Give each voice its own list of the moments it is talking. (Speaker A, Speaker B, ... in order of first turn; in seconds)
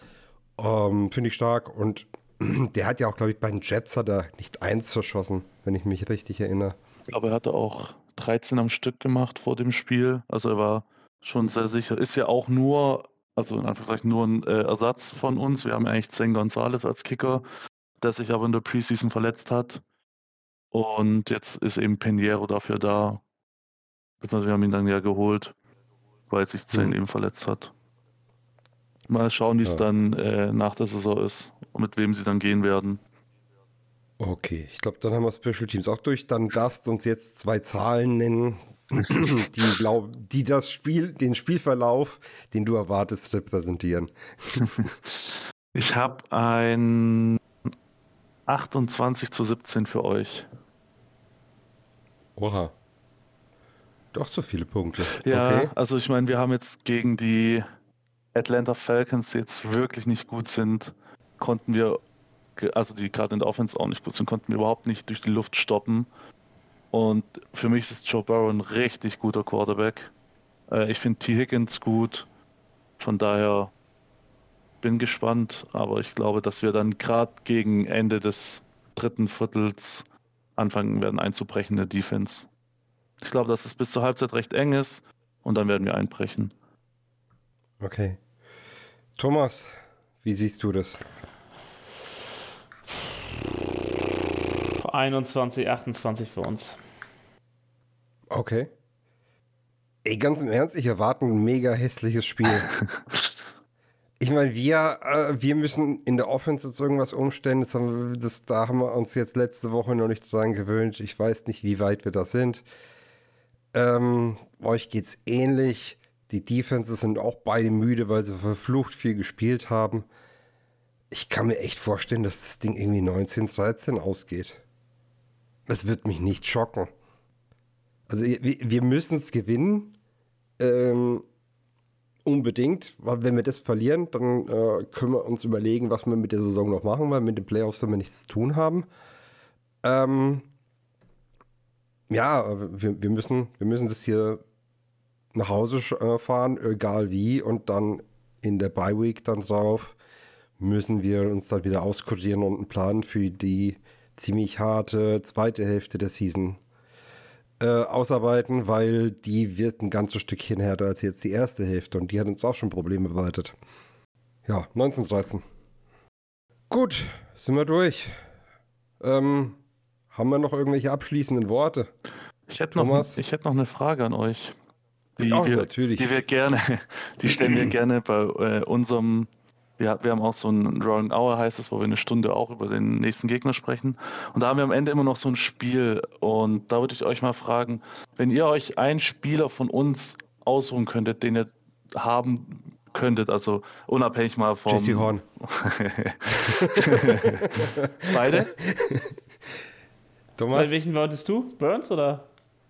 Speaker A: 0.6-6.8, 34.2-44.9, 52.4-52.7, 54.1-55.7, 87.8-88.2, 89.2-89.7, 90.2-91.0, 98.3-98.7, 100.0-102.7, 104.2-112.6, 113.7-120.0, 121.1-124.6, 125.7-126.9, 128.1-129.9, 130.6-131.2, 132.2-138.8, 139.8-140.5, 142.1-144.4, 145.3-149.9, 150.6-156.6, 157.6-163.6, 164.4-165.4, 166.7-168.1, 169.0-169.6, 170.1-171.9, 172.8-173.2, 175.2-176.2, 194.7-195.2, 196.4-199.1, 200.4-200.7
Speaker B: 7.1-17.4, 18.0-19.8, 20.7-23.2, 24.2-25.5, 26.3-27.7, 29.1-33.0, 45.0-47.4, 48.5-50.5, 55.2-57.6, 58.3-62.0, 62.6-66.1, 66.9-70.1, 70.7-72.3, 73.0-73.7, 74.8-80.0, 80.6-82.5, 83.2-86.5, 172.5-174.5, 175.2-179.3, 179.8-198.6
Speaker C: 94.8-96.8, 200.5-202.2